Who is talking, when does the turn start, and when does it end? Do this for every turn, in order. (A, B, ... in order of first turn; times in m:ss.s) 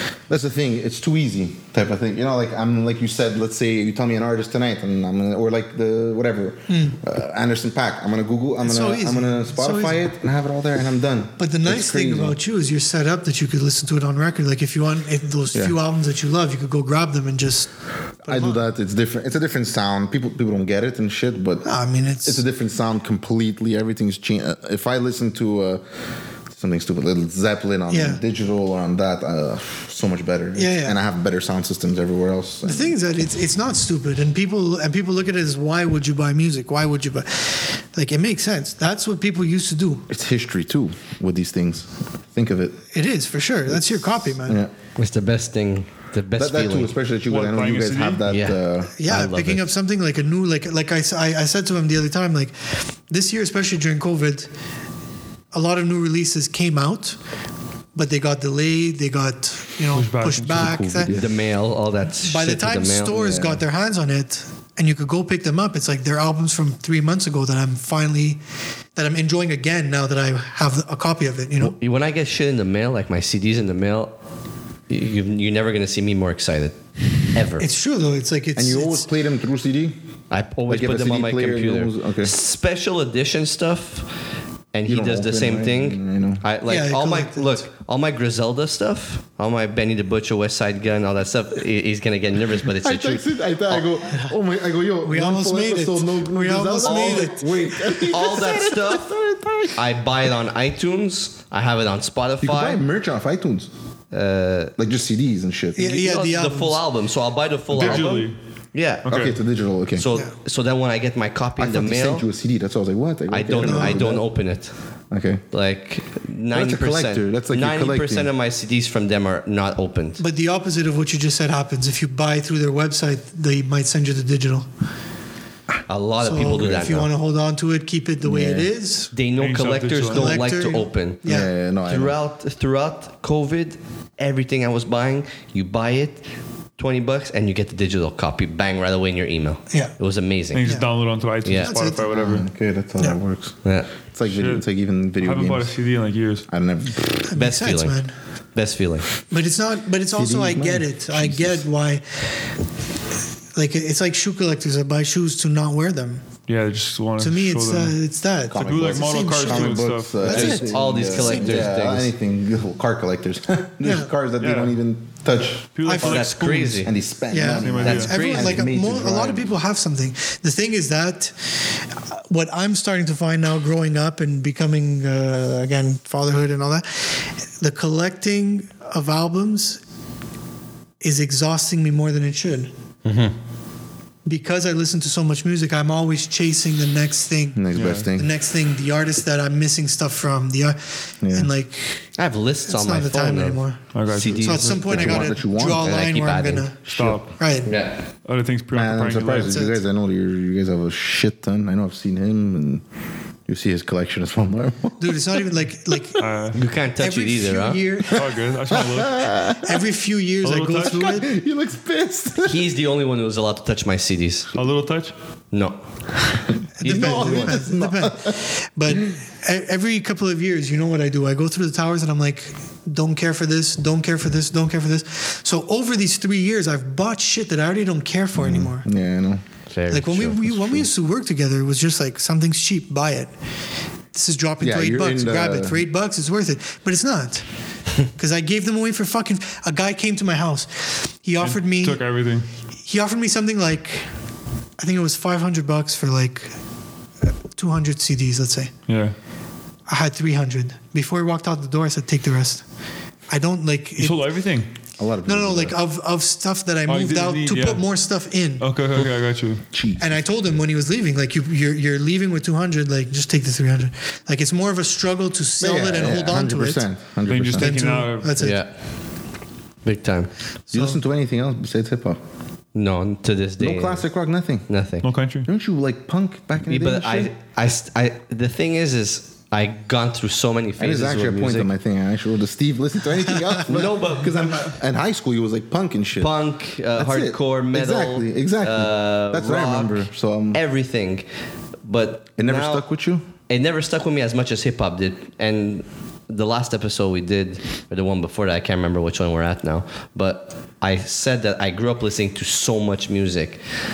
0:00.3-0:12.4 A
0:06.7-0:07.0 B
0:08.6-0:10.0 B
0:11.4-0:17.7 B
0:18.2-0:21.7 A
0:18.3-0:18.6 B
0:21.6-0:22.4 B
0:22.2-0:25.8 A
0:26.5-0:32.9 A
0:27.9-0:28.2 B
0:30.5-0:31.0 B
0:32.6-0:40.1 B
0:40.1-0:42.8 A
0:42.9-0:44.6 B
0:43.7-0:44.7 A
0:45.0-0:46.9 C
0:46.4-0:49.0 A
0:47.3-0:48.2 D
0:48.3-0:49.6 C
0:49.0-0:54.5 B
0:55.5-0:57.2 B
0:57.9-1:01.1 B
0:59.9-1:00.8 D
1:00.4-1:01.3 A
1:01.1-1:03.4 C
1:02.2-1:08.4 B
1:03.2-1:03.6 A
1:08.9-1:11.8 B
1:11.6-1:14.1 C
1:14.9-1:17.7 C
1:17.6-1:19.1 B
1:18.5-1:20.0 A
1:20.3-1:24.1 C
1:20.7-1:22.3 A
1:24.7-1:33.8 C
1:24.8-1:26.4 A
1:26.6-1:27.6 B
1:32.7-1:39.8 A
1:35.0-1:37.9 B
1:36.8-1:37.4 C
1:38.0-1:39.1 C
1:39.7-1:42.8 C
1:42.4-1:43.7 A
1:44.1-1:44.7 C
1:44.8-1:45.9 A
1:45.7-1:46.8 B
1:45.8-1:49.1 C
1:47.7-1:48.4 D
1:47.8-1:48.2 A
1:49.0-1:49.4 D
1:49.0-1:50.0 A
1:50.0-1:52.2 C
1:51.6-1:54.2 A
1:53.3-1:54.7 C
1:53.6-1:54.1 B
1:55.1-1:55.4 A
1:55.5-2:00.2 C
1:56.5-1:58.3 A
2:00.2-2:04.7 B
2:05.9-2:07.1 C
2:06.2-2:09.1 B
2:08.2-2:08.7 A
2:09.1-2:11.2 C
2:09.4-2:10.4 D
2:10.1-2:11.5 B
2:11.2-2:12.2 A
2:11.8-2:16.2 C
2:16.8-2:20.7 C
2:20.5-2:22.4 D
2:21.4-2:21.7 C
2:21.6-2:22.0 B
2:22.1-2:23.6 A
2:23.6-2:23.9 C
2:24.1-2:25.7 A
2:24.3-2:24.6 D
2:25.2-2:26.5 D
2:26.5-2:27.3 A
2:27.3-2:28.1 B
2:27.3-2:28.0 C
2:28.5-2:29.1 C
2:29.3-2:32.2 B
2:30.1-2:31.7 A
2:33.5-2:36.2 B
2:36.5-2:37.9 D
2:37.2-2:41.7 B
2:38.5-2:40.5 D
2:38.5-2:45.7 A
2:40.2-2:42.1 C
2:43.8-2:44.1 B
2:44.4-2:44.8 D
2:45.7-2:46.9 D
2:45.8-2:46.2 B
2:46.0-2:46.9 C
2:46.8-2:49.5 A
2:47.3-2:59.8 B
2:47.5-2:48.2 D
2:47.8-2:48.6 C
3:01.0-3:02.7 B
3:03.0-3:03.3 C
3:04.2-3:12.1 B
3:07.5-3:08.3 A
3:07.7-3:08.1 D
3:11.2-3:11.5 A
3:12.2-3:16.7 C
3:12.6-3:17.7 B
3:13.9-3:14.6 D
3:14.7-3:16.0 A
3:16.8-3:17.3 A
3:16.9-3:17.3 D
3:17.6-3:18.0 C
3:18.2-3:19.6 D
3:18.7-3:22.8 A
3:19.5-3:19.8 B
3:23.5-3:26.3 A
3:25.0-3:26.2 B
3:26.2-3:26.6 D
3:26.5-3:27.8 C
3:27.0-3:28.3 B
3:28.1-3:29.8 A
3:28.1-3:29.3 D
3:29.6-3:31.3 B
3:30.4-3:31.2 D
3:30.8-3:32.6 A
3:32.4-3:34.5 C
3:34.5-3:35.1 D
3:35.5-3:35.8 C
3:36.8-3:48.9 B
3:36.8-3:37.6 C
3:36.8-3:38.4 A
3:48.3-3:49.4 A
3:49.7-3:50.8 C
3:49.9-3:53.3 B
3:54.1-3:57.4 B
3:54.6-3:55.8 A
3:58.0-4:02.0 B
4:01.4-4:02.5 D
4:02.8-4:04.1 B
4:04.8-4:06.6 B
4:07.5-4:08.7 B
4:08.9-4:09.1 D
4:09.9-4:12.6 B
4:13.3-4:14.3 B
4:14.0-4:14.7 D
4:15.0-4:15.8 A
4:15.2-4:18.6 B
4:16.9-4:17.8 D
4:18.6-4:19.6 D
4:19.7-4:20.1 A
4:20.0-4:26.8 B
4:25.6-4:27.7 A
4:27.3-4:28.6 D
4:27.5-4:28.6 B
4:28.4-4:28.7 C
4:29.8-4:30.3 C
4:30.7-4:31.0 B
4:30.7-4:32.2 A
4:32.7-4:34.0 C
4:33.6-4:34.7 A
4:34.7-4:35.1 C
4:35.0-4:35.5 D
4:35.4-4:37.3 A
4:36.7-4:41.7 C
4:40.8-4:46.4 A
4:43.6-4:44.7 C
4:46.2-4:51.2 C
4:46.9-4:50.6 A
4:51.8-4:52.8 C
4:52.4-4:53.2 A
4:53.5-5:03.6 C